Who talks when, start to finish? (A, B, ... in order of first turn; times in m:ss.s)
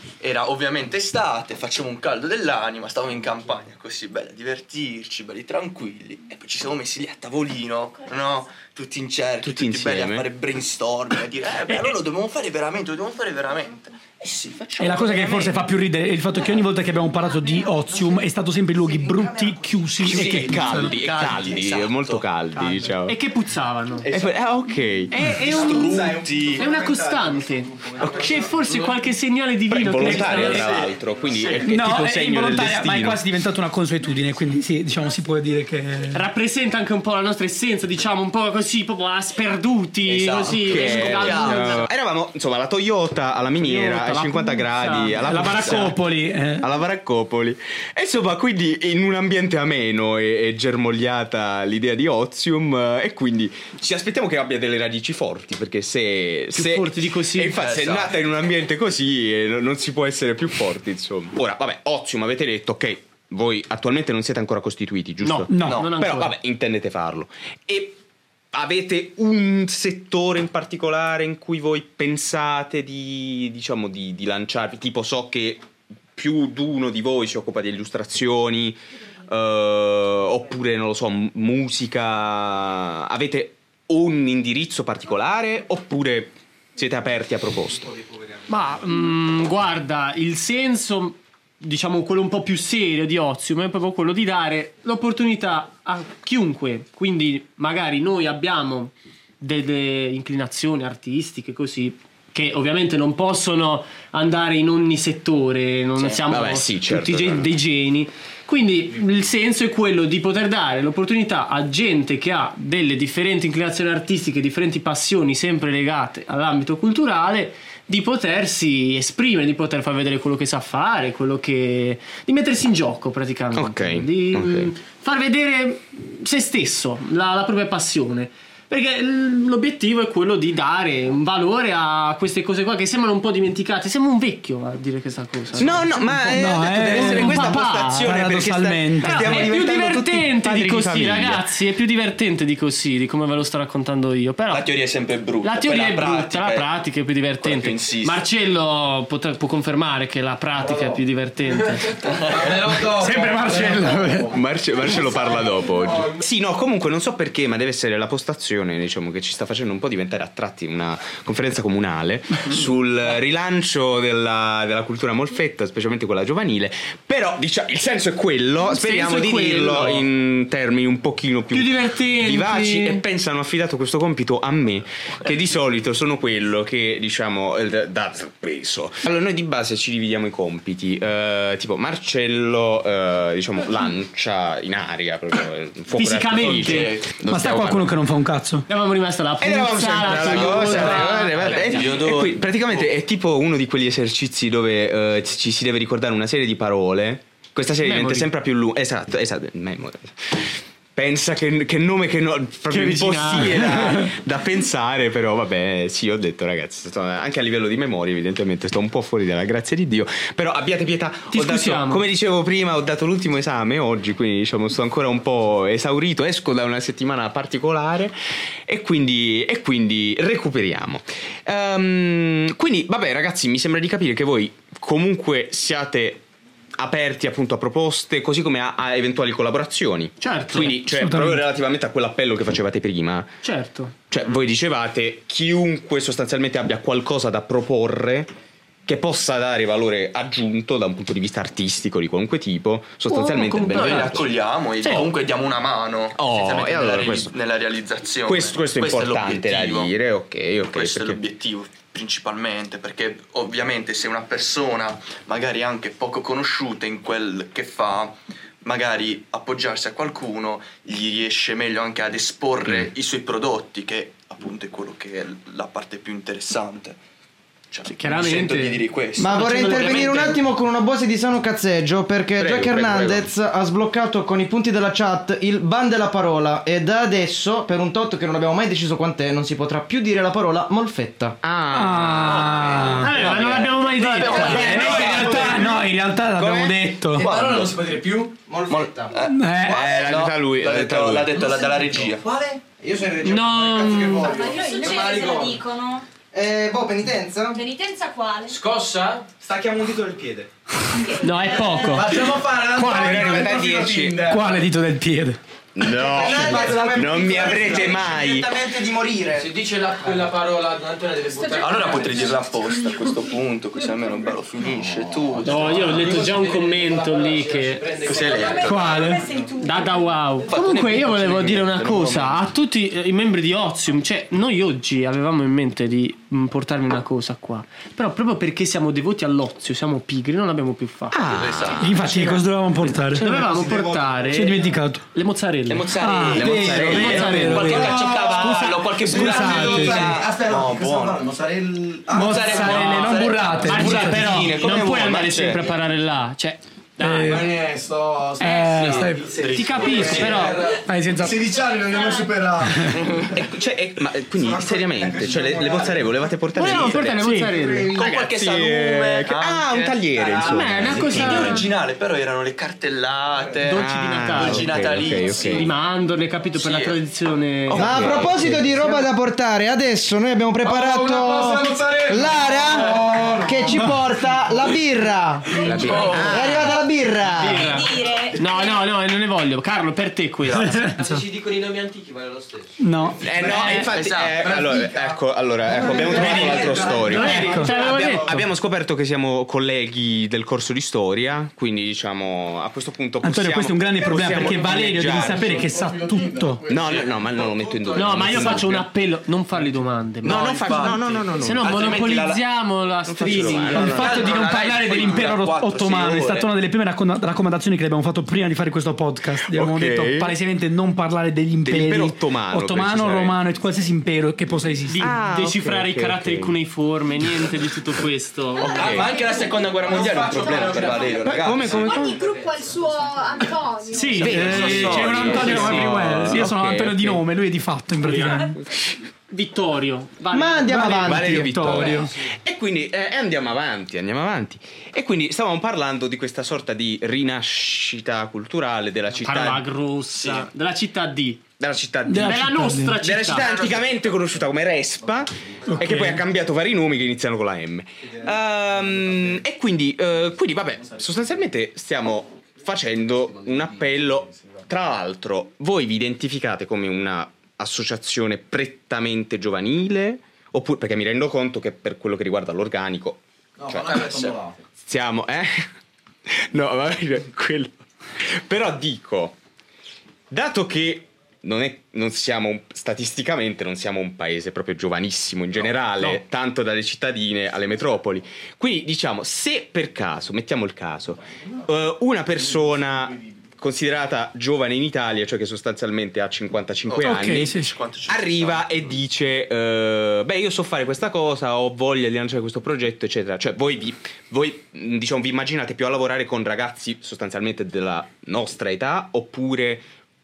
0:00.2-0:15.6 A
0:09.4-0:10.3 B
0:14.8-0:20.9 C
0:15.1-0:15.5 B
0:20.0-0:23.2 B
0:20.0-0:22.3 A
0:22.6-0:24.1 D
0:24.0-0:24.3 A
0:24.1-0:26.6 B
0:25.1-0:30.8 D
0:25.4-0:26.7 A
0:29.7-0:33.2 B
0:30.0-0:30.4 C
0:30.1-0:31.7 A
0:31.5-0:36.2 C
0:36.1-0:41.8 D
0:40.0-0:41.8 A
0:40.6-0:46.0 B
0:43.6-0:45.9 D
0:45.2-0:46.7 C
0:46.6-1:08.0 B
0:56.5-0:57.6 D
0:57.6-0:58.2 A
1:05.2-1:06.3 D
1:05.5-1:05.8 C
1:05.7-1:05.9 A
1:08.5-1:15.6 B
1:16.2-1:27.9 B
1:28.5-2:18.1 D
1:46.0-1:46.2 A
1:46.3-1:47.5 B
2:03.5-2:04.7 B
2:15.5-2:21.5 B
2:16.3-2:19.5 C
2:19.1-2:24.7 D
2:24.5-2:26.7 A
2:25.4-2:33.8 D
2:27.4-2:28.2 A
2:32.0-2:32.8 A
2:32.5-2:34.2 E
2:32.8-2:34.3 C
2:34.3-3:08.0 B
2:48.7-2:50.0 D
2:51.5-2:53.0 D
3:06.0-3:06.9 D
3:06.4-3:07.1 A
3:07.2-3:08.6 C
3:08.7-3:11.4 D
3:09.4-3:38.1 B
3:10.0-3:12.9 A
3:17.8-3:18.3 D
3:22.7-3:24.0 D
3:31.3-3:32.0 D
3:38.7-3:46.2 B
3:46.8-3:53.4 B
3:50.2-3:50.8 D
3:50.9-3:51.4 C
3:53.4-3:53.9 D
3:54.1-3:58.3 B
3:58.9-4:04.2 B
4:03.1-4:04.3 D
4:03.7-4:09.9 A
4:04.8-4:05.1 D
4:06.2-4:07.3 B
4:08.3-4:11.2 B
4:10.7-4:27.0 A
4:22.7-4:22.9 B
4:27.7-4:30.4 A
4:27.9-4:30.4 D
4:29.2-4:41.4 F
4:32.4-4:33.3 B
4:41.4-4:42.7 B
4:41.7-4:43.3 C
4:42.3-4:45.8 A
4:43.0-4:44.9 D
4:44.3-4:45.6 F
4:44.5-4:45.2 E
4:44.6-4:47.3 C
4:47.1-4:52.3 A
4:47.3-4:48.2 E
4:48.5-4:50.1 F
4:49.2-4:49.9 C
4:49.7-4:51.4 B
4:51.4-4:55.6 F
4:53.2-4:54.3 D
4:54.3-4:56.0 G
4:56.3-4:57.6 F
4:57.5-4:58.6 G
4:58.5-4:59.2 E
4:59.5-5:00.3 F
5:01.0-5:02.0 G
5:01.2-5:02.3 D
5:01.9-5:04.4 E
5:02.1-5:04.3 B
5:04.2-5:05.4 C
5:05.8-5:08.6 B
5:05.9-5:09.6 F
5:09.4-5:11.9 E
5:11.3-5:12.3 G
5:11.5-5:16.1 A
5:15.4-5:18.0 D
5:16.0-5:16.4 E
5:17.1-5:18.1 E
5:17.9-5:19.0 A
5:18.1-5:20.1 G
5:18.5-5:19.4 C
5:19.6-5:31.2 D
5:20.6-5:21.9 A
5:21.0-5:22.3 B
5:31.1-5:31.9 B
5:31.3-5:32.4 A
5:31.8-5:33.4 C
5:32.0-5:32.4 D
5:33.1-5:35.9 D
5:34.3-5:35.0 C
5:35.7-5:41.4 A
5:35.8-5:38.8 B
5:35.9-5:40.2 C
5:36.8-5:37.8 D
5:37.7-5:38.3 E
5:39.1-5:40.7 E
5:39.7-5:42.4 F
5:42.1-5:44.6 C
5:42.1-5:45.6 A
5:42.6-5:47.5 D
5:43.7-5:45.6 B
5:47.0-5:47.6 C
5:47.3-5:52.9 E
5:48.4-5:49.3 C
5:48.6-5:50.6 A
5:49.5-5:50.7 D
5:50.7-5:51.5 C
5:51.5-5:52.4 G
5:52.6-5:53.0 C
5:52.9-5:53.4 A
5:53.3-5:57.2 B
5:54.6-5:55.5 E
5:56.6-5:58.0 D
5:56.7-5:57.0 A
5:57.2-5:57.6 C
5:57.9-6:05.6 A
5:57.9-6:01.6 B
6:00.4-6:01.7 D
6:03.6-6:04.7 D
6:03.8-6:05.7 B
6:05.3-6:08.3 D
6:06.5-6:07.0 A
6:07.7-6:08.7 B
6:07.7-6:17.9 F
6:10.7-6:14.5 E
6:15.5-6:15.8 C
6:15.6-6:16.7 B
6:15.8-6:16.6 A
6:17.2-6:20.9 D
6:17.7-6:18.8 G
6:20.8-6:21.3 C
6:22.8-6:23.9 C
6:23.2-6:35.5 B
6:23.4-6:24.6 A
6:25.8-6:27.4 E
6:26.2-6:28.4 C
6:27.0-6:28.4 D
6:33.2-6:36.7 C
6:35.1-6:36.9 E
6:36.7-6:38.9 B
6:37.9-6:44.2 D
6:40.2-6:41.8 B
6:40.2-6:42.4 A
6:43.0-6:44.2 B
6:43.2-6:46.5 A
6:43.7-6:55.1 C
6:49.4-6:50.4 B
6:51.6-6:53.4 B
6:54.9-6:59.0 D
6:55.0-6:56.6 B
6:58.6-6:59.4 G
6:58.6-7:02.0 A
6:58.6-6:59.1 B
7:00.1-7:01.0 E
7:00.3-7:01.1 G
7:01.1-7:02.3 B
7:01.6-7:04.6 G
7:03.9-7:04.4 D
7:04.0-7:08.6 C
7:04.1-7:07.2 B
7:04.2-7:06.3 A
7:08.0-7:08.5 D
7:08.6-7:08.9 B
7:09.3-7:11.3 D
7:10.3-7:11.7 F
7:10.7-7:12.1 C
7:11.0-7:19.6 B
7:19.2-7:21.4 D
7:20.1-7:20.5 A
7:21.6-7:45.6 B
7:22.1-7:23.0 C
7:22.2-7:23.5 D
7:23.4-7:23.9 A
7:25.7-7:26.2 C
7:43.7-7:44.4 A
7:46.3-7:49.4 B
7:50.3-8:07.5 B
8:06.9-8:09.0 A
8:07.0-8:07.7 C
8:08.1-8:19.9 B